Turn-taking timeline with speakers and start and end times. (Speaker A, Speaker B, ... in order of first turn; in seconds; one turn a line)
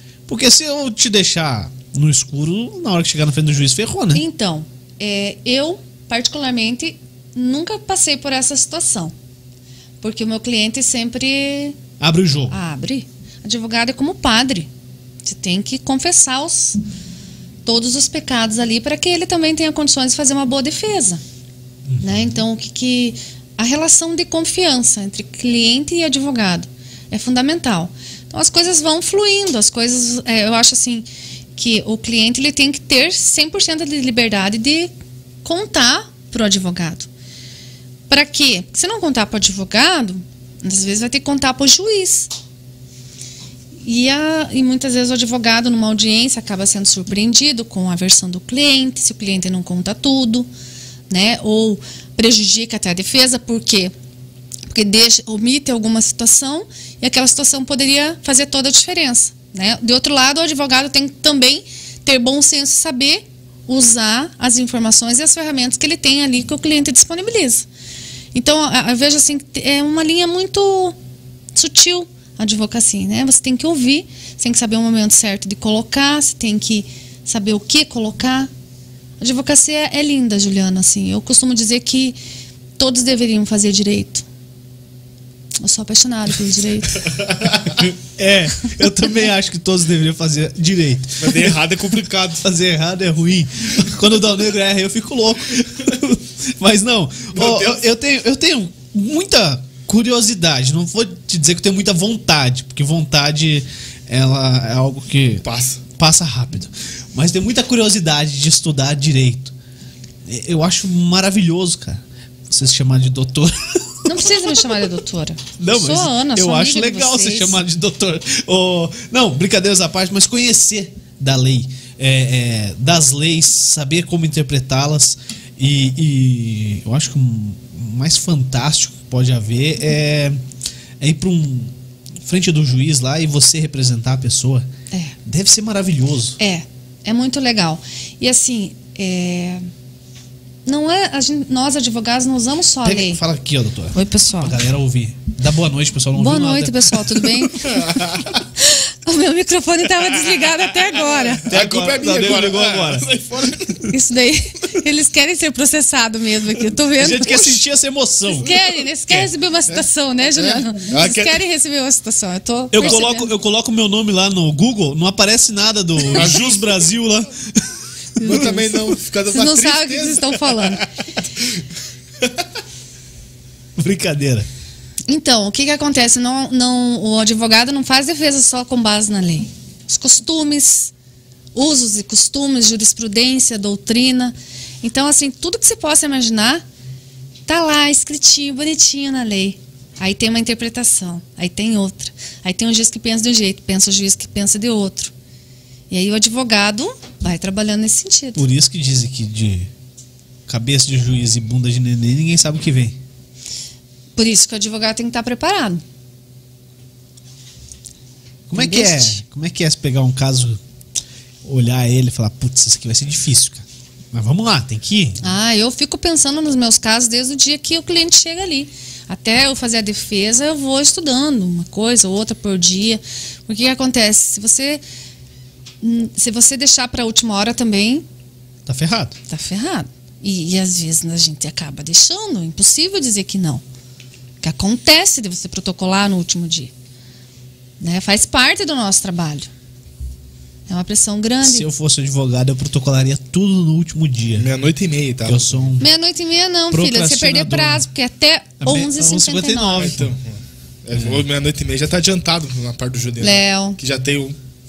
Speaker A: 0.3-4.2
Speaker B: 4.1-9.1
Speaker B: 10.0-11.8
Speaker A: 12.0-12.6
Speaker B: 12.5-14.7
Speaker B: 15.2-16.8
Speaker B: 17.6-21.2
Speaker A: 21.9-22.3
Speaker B: 22.0-34.9
Speaker B: 35.4-37.1
Speaker B: 38.1-42.3
Speaker B: 43.8-50.5
Speaker B: 51.1-53.9
Speaker B: 54.7-67.7
Speaker B: 68.3-71.0
Speaker B: 71.5-78.5
Speaker B: 79.2-82.2
Speaker B: 82.8-84.2
Speaker B: 85.6-87.1
Speaker C: 87.3-87.8
Speaker A: 87.8-91.6
Speaker C: 91.2-92.4
Speaker A: 92.4-105.4
Speaker C: 97.3-97.8
Speaker C: 105.4-105.8
Speaker A: 106.0-109.5
Speaker A: 110.2-114.5
Speaker B: 114.0-117.6
Speaker A: 115.6-130.4
Speaker A: 131.0-134.7
Speaker A: 135.2-136.4
Speaker B: 136.4-139.7
Speaker B: 140.7-143.2
Speaker A: 142.8-147.5
Speaker B: 143.9-144.6
Speaker B: 146.2-151.5
Speaker C: 147.7-148.3
Speaker C: 151.4-153.9
Speaker A: 151.5-153.1
Speaker B: 153.9-157.6
Speaker A: 157.0-158.5
Speaker B: 158.3-163.3
Speaker C: 160.3-161.4
Speaker A: 162.7-168.6
Speaker C: 166.1-166.7
Speaker B: 168.2-168.7
Speaker C: 168.2-170.8
Speaker B: 169.3-170.8
Speaker A: 173.8-174.5
Speaker B: 175.1-180.9
Speaker B: 181.5-186.6
Speaker B: 187.5-195.1
Speaker B: 195.9-198.4
Speaker A: 198.3-199.7
Speaker A: 200.5-203.0
Speaker B: 204.2-205.8
Speaker A: 208.5-210.6
Speaker B: 208.5-209.2
Speaker A: 211.4-215.2
Speaker B: 215.2-224.8
Speaker B: 225.8-228.0
Speaker A: 228.7-229.1
Speaker B: 229.3-233.6
Speaker B: 234.4-236.7
Speaker B: 237.8-239.5
Speaker B: 240.7-241.7
Speaker A: 241.4-244.5
Speaker C: 244.4-245.7
Speaker A: 245.2-245.9
Speaker B: 245.8-250.0
Speaker A: 246.7-247.8
Speaker A: 248.6-250.1
Speaker C: 249.8-250.3
Speaker C: 250.8-254.4
Speaker A: 250.9-251.2
Speaker B: 253.2-253.8